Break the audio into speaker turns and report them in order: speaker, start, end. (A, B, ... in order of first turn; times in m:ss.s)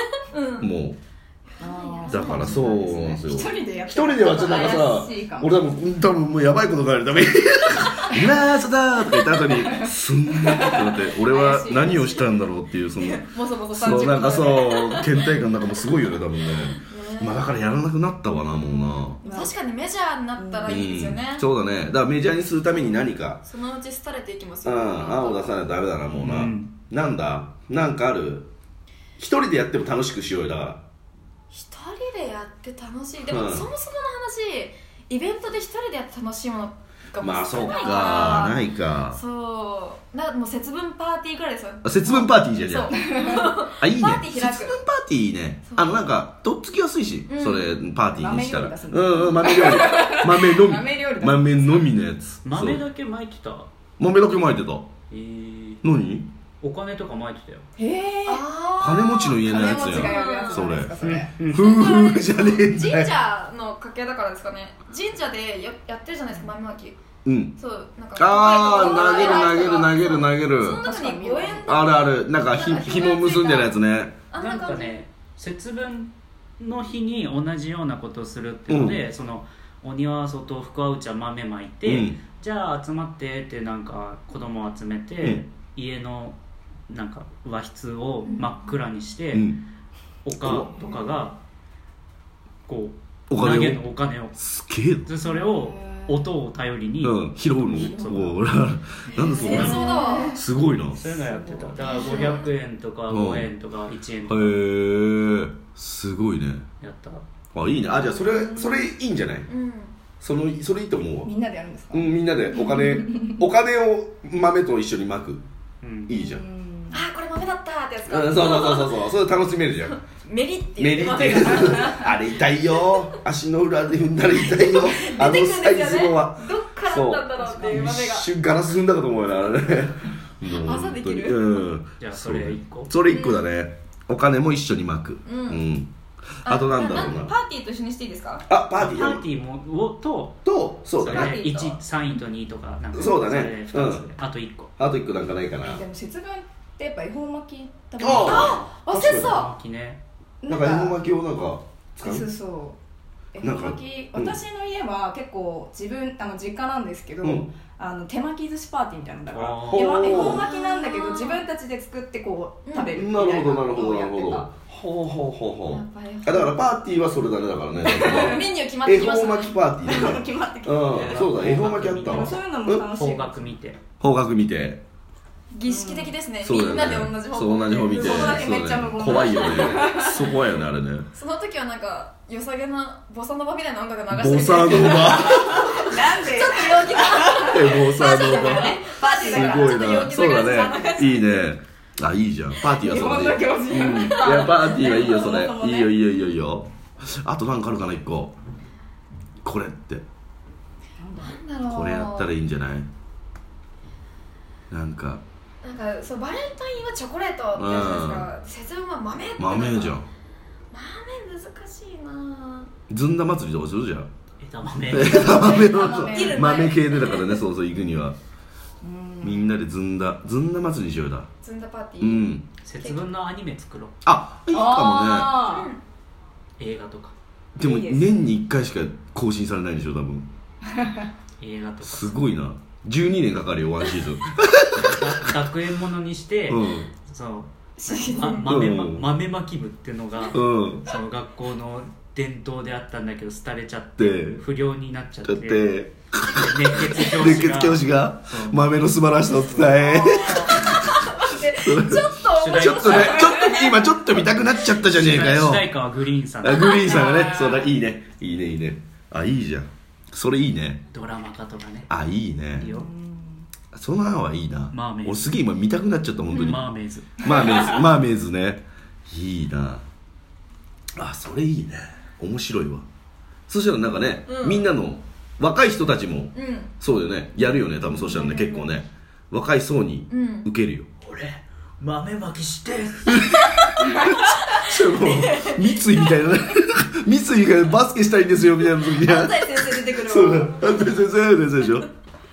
0:00.2-0:00.7 A
0:00.6-0:01.0 B
0:01.6-0:02.8 A
0:01.6-0:05.6 C
0:02.1-0:19.2 B
0:04.4-0:05.0 A
0:10.6-0:10.8 C
0:11.2-0:12.3 A
0:13.0-0:15.2 A
0:16.7-0:17.5 A
0:18.5-0:21.4 A
0:19.2-0:19.6 C
0:20.4-0:20.8 C
0:20.7-0:23.4 B
0:23.4-0:25.6 A
0:24.6-0:28.5 B
0:26.2-0:26.7 D
0:29.2-0:30.8 B
0:31.5-0:44.8 A
0:33.3-0:33.7 B
0:37.2-0:39.2 B
0:41.8-0:43.1 B
0:43.0-0:43.5 C
0:43.8-0:52.8 B
0:45.7-0:46.0 A
0:47.3-0:47.7 A
0:48.1-0:51.9 C
0:52.4-0:53.7 D
0:54.0-0:54.9 B
0:55.1-0:55.8 D
0:55.8-0:56.3 B
0:56.6-0:57.6 D
0:57.8-0:58.4 C
0:58.3-1:00.7 A
0:58.8-1:01.0 B
0:59.4-1:01.4 C
1:01.0-1:01.7 D
1:01.5-1:07.0 A
1:01.5-1:03.1 B
1:07.2-1:07.6 B
1:07.6-1:13.8 A
1:08.2-1:10.8 B
1:08.7-1:09.6 C
1:10.8-1:11.7 C
1:11.7-1:14.2 B
1:14.3-1:15.0 A
1:14.4-1:26.4 D
1:18.7-1:19.0 B
1:21.9-1:22.2 B
1:26.9-1:29.5 D
1:29.3-1:29.6 B
1:30.2-1:31.4 D
1:30.4-1:30.9 B
1:30.8-1:31.1 C
1:32.7-1:34.4 D
1:33.3-1:33.9 B
1:34.4-1:35.1 B
1:35.1-1:38.4 D
1:35.2-1:36.3 C
1:37.0-1:41.1 B
1:37.7-1:38.1 C
1:39.0-1:39.8 D
1:39.3-1:40.4 A
1:39.5-1:40.4 C
1:40.8-1:44.6 D
1:41.0-1:42.4 C
1:41.8-1:42.5 A
1:43.1-1:43.5 B
1:44.3-1:46.6 B
1:46.8-1:47.2 D
1:47.5-1:49.5 B
1:49.5-1:50.0 A
1:50.2-1:51.3 B
1:51.2-1:53.3 C
1:51.9-1:55.4 B
1:55.8-1:56.1 D
1:56.1-1:56.4 B
1:56.1-1:57.0 C
1:56.9-1:59.1 A
1:58.1-2:00.0 B
1:59.9-2:02.2 A
2:00.8-2:15.9 B
2:04.5-2:08.3 A
2:07.4-2:07.9 D
2:10.5-2:11.6 A
2:12.0-2:12.9 D
2:13.1-2:13.5 A
2:15.2-2:15.6 A
2:16.4-2:17.3 B
2:16.4-2:18.4 A
2:18.5-2:19.2 B
2:18.8-2:20.4 D
2:20.4-2:21.4 B
2:21.0-2:24.7 D
2:21.1-2:21.8 A
2:22.9-2:24.1 B
2:24.8-2:25.8 B
2:25.6-2:28.6 C
2:28.0-2:29.4 B
2:28.2-2:29.5 A
2:29.0-2:30.0 D
2:30.4-2:31.0 C
2:30.5-2:32.3 B
2:32.0-2:32.8 C
2:33.3-2:44.5 C
2:33.4-2:34.4 B
2:37.2-2:37.5 B
2:39.3-2:40.0 D
2:39.7-2:40.4 B
2:40.0-2:41.4 A
2:42.7-2:42.9 A
2:42.9-2:52.9 B
2:45.7-2:46.6 A
2:47.8-2:48.5 C
2:48.0-2:50.2 A
2:49.8-2:51.2 C
2:50.9-2:53.8 D
2:52.0-2:53.5 C
2:54.0-2:54.8 B
2:55.5-2:58.6 A
2:55.7-2:56.1 C
2:56.4-3:01.1 B
2:57.8-3:00.3 C
2:59.1-3:00.1 A
3:01.1-3:11.3 A
3:04.1-3:05.6 B
3:04.8-3:10.4 C
3:07.4-3:18.4 B
3:12.8-3:16.0 C
3:13.7-3:14.5 A
3:19.4-3:20.0 B
3:21.0-3:21.4 C
3:21.2-3:22.3 A
3:21.7-3:22.9 B
3:24.7-3:25.2 B
3:25.6-3:30.0 A
3:27.6-3:28.3 B
3:29.4-3:30.1 B
3:30.7-3:32.7 A
3:32.9-3:34.1 B
3:34.4-3:35.5 D
3:34.9-3:38.2 B
3:35.0-3:36.6 C
3:35.8-3:37.4 A
3:38.8-3:39.5 C
3:39.2-3:41.3 B
3:41.4-3:43.0 A
3:42.0-3:42.5 B
3:42.6-3:43.9 D
3:44.0-3:45.4 B
3:44.5-3:45.7 C
3:45.4-3:45.8 A
3:46.6-3:47.1 D
3:47.6-3:50.3 B
3:47.6-3:48.2 C
3:51.4-3:52.1 D
3:51.8-3:55.1 B
3:54.8-4:05.7 D
3:56.5-3:56.9 B
3:57.8-3:58.5 A
3:57.9-3:58.4 C
3:58.4-3:59.1 B
4:00.3-4:00.9 B
4:04.0-4:04.4 B
4:05.2-4:15.7 B
4:06.4-4:09.9 D
4:09.9-4:14.0 A
4:12.4-4:13.3 D
4:14.8-4:16.8 D
4:16.4-4:20.8 B
4:16.7-4:17.6 A
4:16.8-4:17.5 C
4:20.9-4:21.9 D
4:21.9-4:22.7 B
4:22.6-4:22.9 D
4:22.6-4:23.5 C
4:23.7-4:26.7 B
4:24.7-4:25.4 D
4:26.4-4:27.3 D
4:27.2-4:29.8 B
4:27.2-4:27.8 A
4:31.0-4:32.9 B
4:33.5-4:40.9 B
4:34.3-4:34.7 A
4:36.3-4:36.7 A
4:37.9-4:38.7 A
4:40.1-4:40.5 A
4:41.0-4:43.8 D
4:43.2-4:51.9 B
4:44.5-4:46.0 A
4:48.8-4:51.1 A